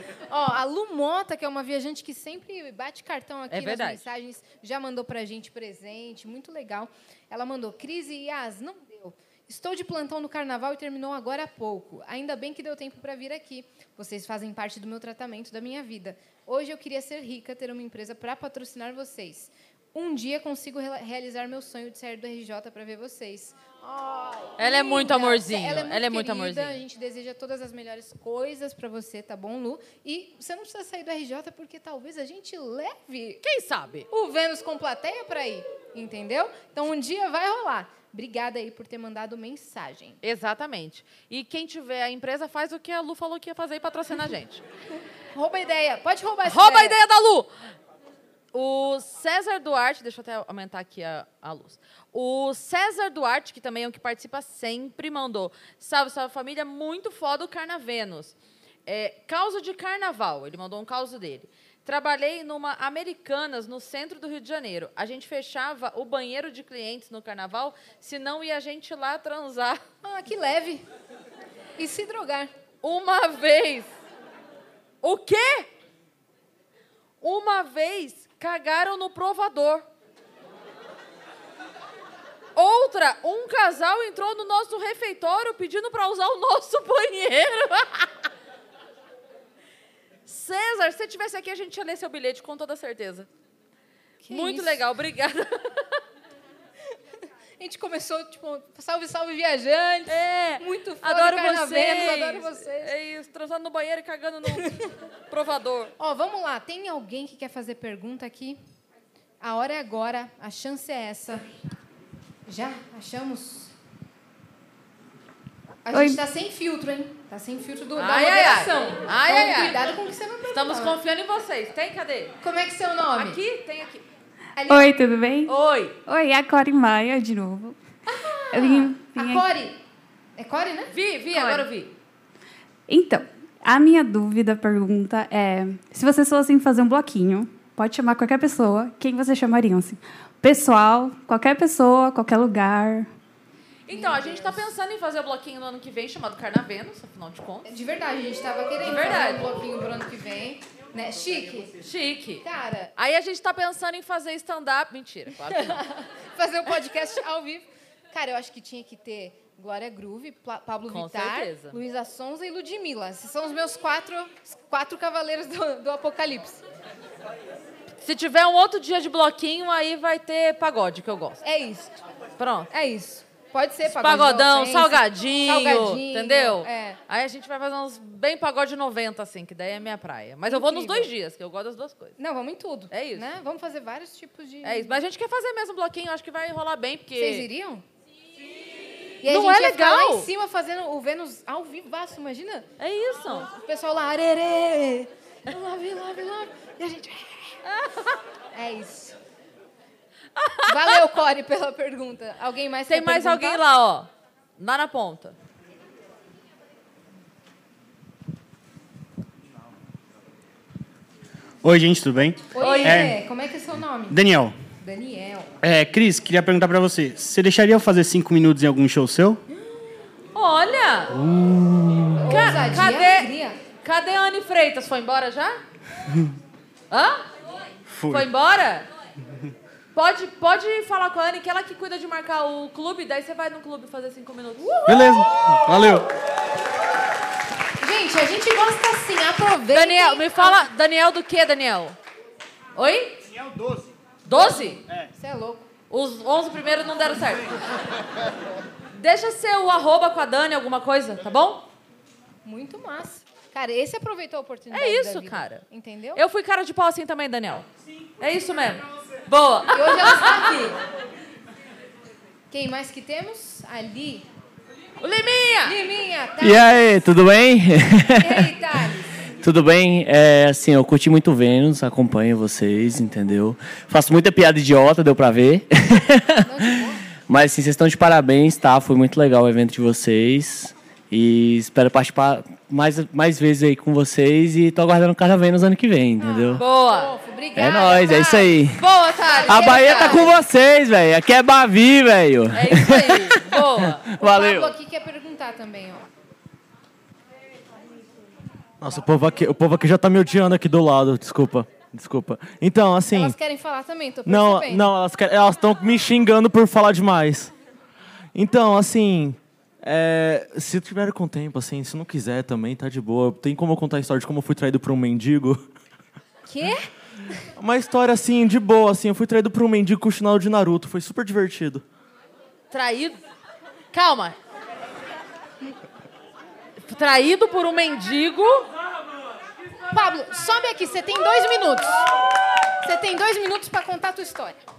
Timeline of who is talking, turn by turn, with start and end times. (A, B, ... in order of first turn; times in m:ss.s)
0:00.3-0:33.4 A
0:03.5-0:04.1 B
0:24.6-0:26.8 B
0:33.4-0:34.1 B
0:34.1-0:40.2 A
0:40.2-0:44.6 B
0:45.3-0:47.0 A
0:46.4-0:47.5 B
0:48.5-0:58.3 B
0:58.8-1:09.8 B
1:10.0-1:10.8 A
1:11.8-1:12.5 A
1:12.8-1:13.9 B
1:15.0-1:15.7 B
1:17.2-1:19.8 B
1:22.6-1:28.1 B
1:30.2-1:33.3 B
1:34.2-1:34.8 A
1:34.3-1:36.0 B
1:37.6-1:42.9 A
1:40.1-1:45.9 B
1:44.4-1:44.7 A
1:46.0-1:48.6 A
1:49.4-1:51.4 A
1:52.4-1:53.7 A
1:55.8-2:01.0 A
1:55.9-1:56.2 C
1:58.0-1:59.9 B
2:00.5-2:02.3 B
2:02.4-2:03.4 A
2:03.2-2:04.0 B
2:04.6-2:04.9 A
2:04.7-2:05.5 C
2:05.5-2:05.9 B
2:06.1-2:07.8 C
2:08.1-2:08.8 B
2:08.5-2:09.8 A
2:08.5-2:09.5 C
2:10.4-2:11.6 A
2:10.9-2:11.9 B
2:12.9-2:23.1 C
2:23.9-2:27.7 B
2:23.9-2:24.6 A
2:27.6-2:31.7 A
2:28.8-2:29.5 B
2:31.8-2:32.4 B
2:32.4-2:32.9 A
2:33.0-2:35.8 B
2:35.5-2:46.6 A
2:40.9-2:41.8 B
2:48.0-2:51.4 B
2:51.4-2:52.0 A
2:52.4-2:52.7 B
2:52.7-2:57.0 A
2:53.8-3:02.2 B
3:00.5-3:01.1 A
3:02.2-3:05.0 A
3:02.9-3:03.3 B
3:04.6-3:07.5 B
3:07.1-3:07.8 A
3:09.2-3:12.7 A
3:09.2-3:10.3 B
3:12.8-3:13.5 B
3:13.3-3:17.6 A
3:17.7-3:18.1 B
3:18.5-3:19.2 A
3:20.4-3:21.0 B
3:20.7-3:23.6 A
3:22.9-3:25.4 B
3:31.6-3:33.1 D
3:32.5-3:34.2 A
3:32.6-3:33.1 B
3:34.1-3:34.5 D
3:34.8-3:35.5 A
3:35.6-3:39.4 D
3:40.3-3:41.1 B
3:42.2-3:43.6 A
3:42.3-3:43.3 B
3:43.8-3:45.6 B
3:46.9-3:47.2 B
3:48.1-3:48.9 B
3:49.9-3:55.1 B
3:54.9-3:56.1 D
3:57.8-4:00.6 A
3:59.7-4:02.0 B
4:02.7-4:03.2 B
4:04.2-4:04.8 B
4:05.1-4:05.7 A
4:05.9-4:07.5 B
4:08.9-4:11.7 B
4:12.4-4:16.2 A
4:14.7-4:17.7 B
4:18.2-4:20.7 B
4:19.7-4:20.7 A
4:22.5-4:24.2 A
4:25.0-4:25.8 B
4:25.6-4:26.8 A
4:26.4-4:28.5 E
4:28.2-4:29.1 A
4:29.4-4:46.6 E
4:36.4-4:37.0 A
4:46.2-4:50.4 A
4:46.6-4:47.1 B
4:47.6-4:48.8 E
4:48.8-4:50.3 B
4:49.5-4:53.2 E
4:52.5-4:54.1 B
4:54.1-4:54.7 E
4:54.2-4:56.0 A
4:58.8-5:03.4 F
5:03.1-5:04.9 A
5:04.2-5:07.5 F
5:08.3-5:15.6 F
5:16.5-5:16.9 A
5:17.6-5:21.8 F
5:22.7-5:23.2 B
5:23.9-5:24.4 B
5:26.8-5:28.7 B
5:29.9-5:32.0 A
5:32.8-5:34.6 A